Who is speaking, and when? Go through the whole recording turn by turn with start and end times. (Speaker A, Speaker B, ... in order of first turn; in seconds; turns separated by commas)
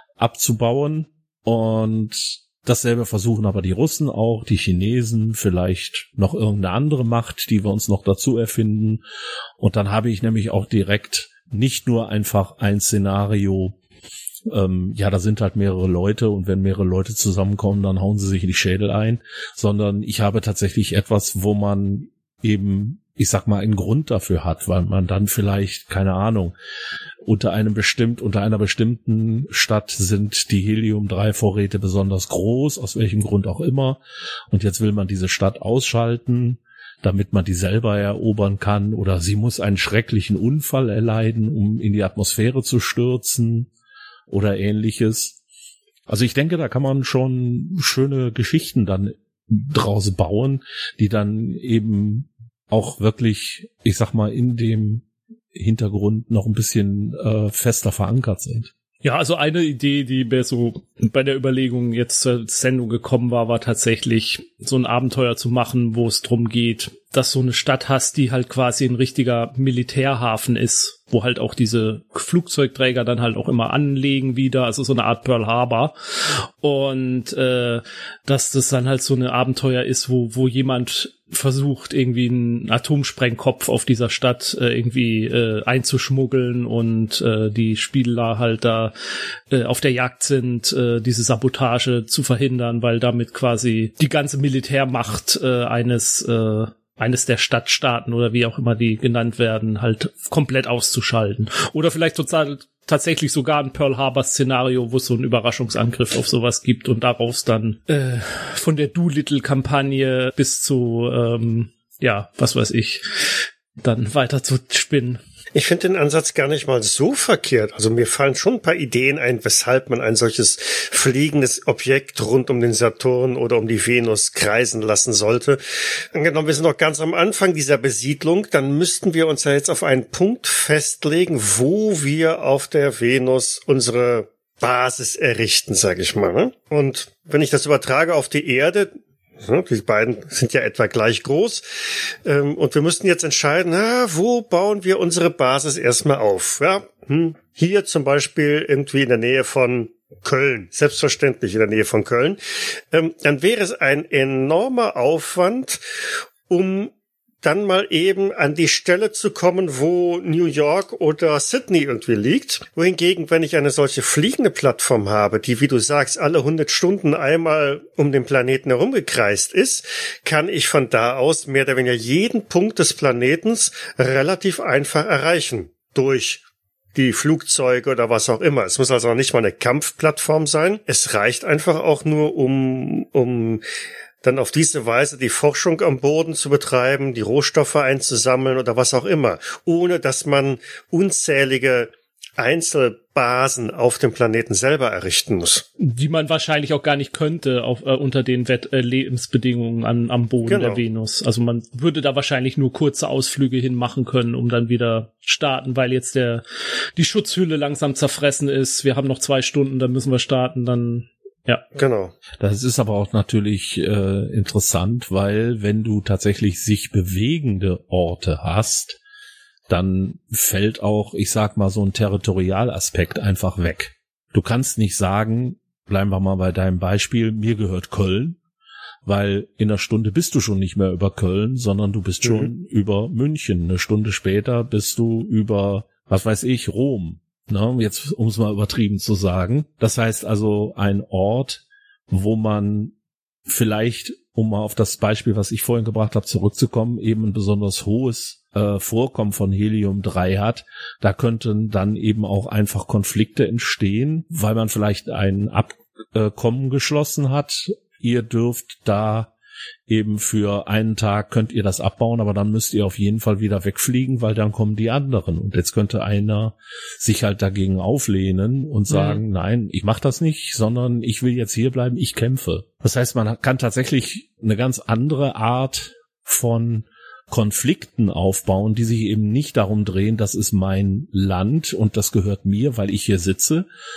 Speaker A: 0.2-9.0, Speaker A: 9.6-13.8, Speaker A: 14.5-26.5, Speaker A: 27.2-34.0, Speaker A: 34.5-43.7, Speaker A: 44.3-45.4, Speaker A: 46.1-58.7, Speaker B: 59.0-88.9, Speaker B: 89.5-115.2, Speaker C: 115.5-152.4, Speaker C: 152.9-155.8, Speaker C: 156.5-176.4, Speaker C: 176.9-183.6, Speaker C: 184.2-195.6, Speaker B: 195.8-206.4, Speaker C: 200.4-200.8, Speaker B: 206.9-211.6, Speaker C: 211.8-212.1, Speaker A: 212.4-219.0, Speaker A: 219.7-228.4, Speaker A: 229.0-242.9, Speaker C: 232.2-232.5, Speaker A: 243.5-259.3, Speaker A: 259.9-283.6, Speaker B: 268.9-269.2